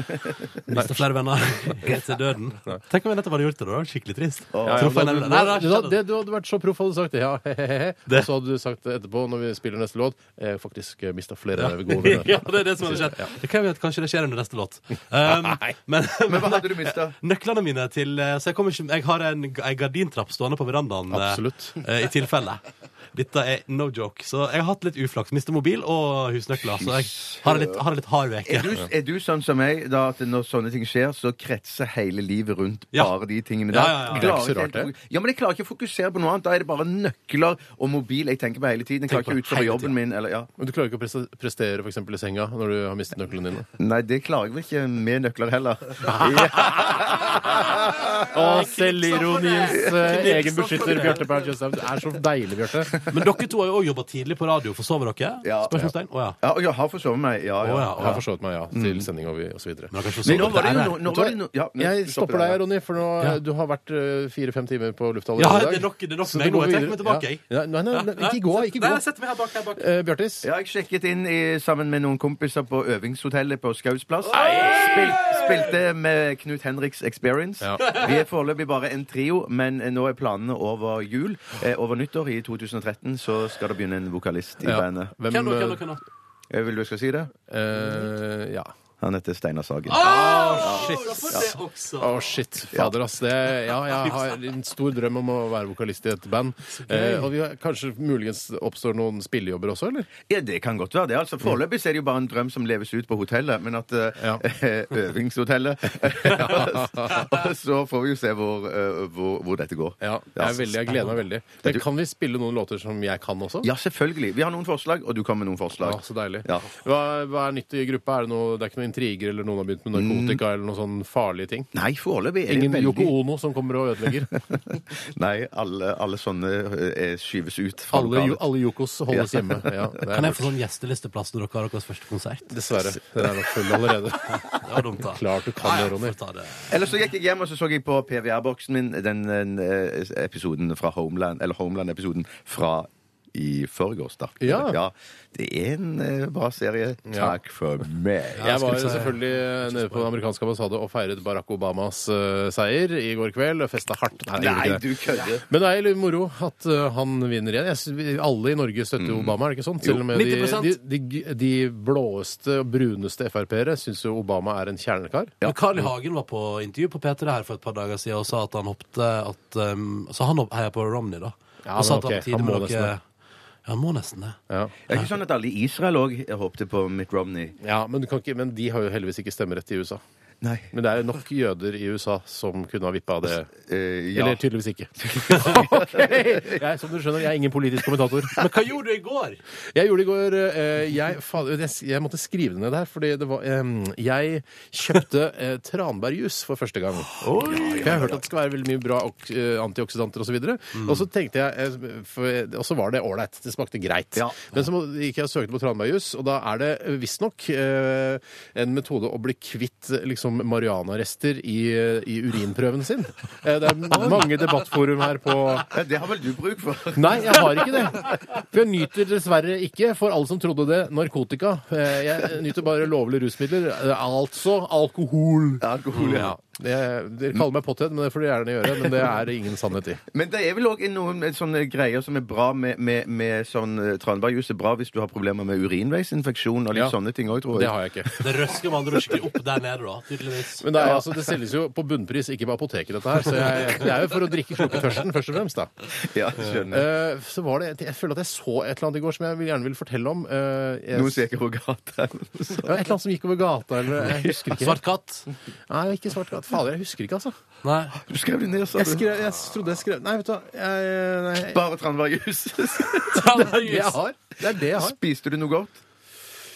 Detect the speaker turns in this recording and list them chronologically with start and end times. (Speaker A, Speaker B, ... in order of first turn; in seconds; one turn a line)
Speaker A: 0.7-1.0
Speaker B: 0.7-6.0
Speaker C: 4.5-4.9
Speaker A: 4.6-13.3
Speaker B: 11.6-28.7
Speaker A: 15.3-15.7
Speaker C: 16.3-17.1
Speaker A: 21.1-21.8
Speaker C: 26.7-27.8
Speaker C: 28.4-40.5
Speaker B: 33.7-34.4
Speaker A: 34.0-34.9
Speaker B: 39.1-39.9
Speaker A: 40.6-43.7
Speaker C: 43.8-48.3
Speaker A: 46.1-52.9
Speaker B: 48.1-51.5
Speaker B: 53.1-56.4
Speaker C: 55.4-55.9
Speaker C: 56.4-58.2
Speaker B: 57.6-58.2
Speaker A: 58.0-69.0
Speaker C: 58.7-59.1
Speaker B: 59.9-61.0
Speaker C: 60.2-62.6
Speaker B: 65.4-69.8
Speaker A: 69.8-70.5
Speaker C: 70.4-85.1
Speaker B: 74.3-75.7
Speaker A: 74.4-75.1
Speaker B: 77.9-78.2
Speaker A: 84.6-85.8
Speaker B: 85.3-86.0
Speaker C: 86.5-87.3
Speaker A: 87.5-88.7
Speaker C: 89.0-91.5
Speaker B: 89.9-92.4
Speaker A: 89.9-100.1
Speaker B: 94.0-94.4
Speaker B: 96.8-97.3
Speaker C: 100.3-111.1
Speaker A: 106.3-107.2
Speaker A: 110.0-113.7
Speaker C: 113.6-116.7
Speaker A: 115.8-121.7
Speaker C: 120.0-120.4
Speaker C: 121.7-123.1
Speaker A: 122.5-124.3
Speaker C: 124.3-128.4
Speaker A: 127.9-130.5
Speaker C: 129.1-129.7
Speaker B: 130.1-132.5
Speaker A: 132.5-136.2
Speaker B: 134.3-136.8
Speaker C: 136.7-148.7
Speaker A: 144.4-144.8
Speaker A: 147.1-147.4
Speaker B: 148.4-150.1
Speaker A: 148.4-165.9
Speaker C: 154.3-155.4
Speaker C: 159.0-159.3
Speaker B: 160.0-160.8
Speaker B: 165.4-173.0
Speaker A: 171.6-172.9
Speaker B: 173.7-174.4
Speaker C: 174.9-177.6
Speaker A: 177.6-180.0
Speaker C: 180.4-180.7
Speaker A: 180.7-183.5
Speaker C: 183.7-184.4
Speaker A: 184.1-188.4
Speaker C: 185.0-186.6
Speaker B: 188.4-189.4
Speaker A: 189.7-215.7
Speaker C: 197.1-198.2
Speaker C: 213.9-214.2
Speaker C: 215.7-218.1
Speaker A: 216.9-230.0
Speaker C: 225.6-226.4
Speaker C: 230.1-238.6
Speaker A: 237.5-238.1
Speaker B: 238.2-240.6
Speaker A: 240.6-245.7
Speaker C: 246.0-246.9
Speaker A: 246.7-251.2
Speaker C: 250.9-252.8
Speaker A: 252.6-254.8
Speaker C: 254.0-254.5
Speaker B: 254.6-255.3
Speaker A: 255.7-257.3
Speaker B: 257.6-258.0
Speaker C: 258.0-259.1
Speaker A: 258.8-261.6
Speaker C: 261.5-263.3
Speaker B: 263.1-264.0
Speaker A: 263.3-265.0
Speaker C: 264.7-265.8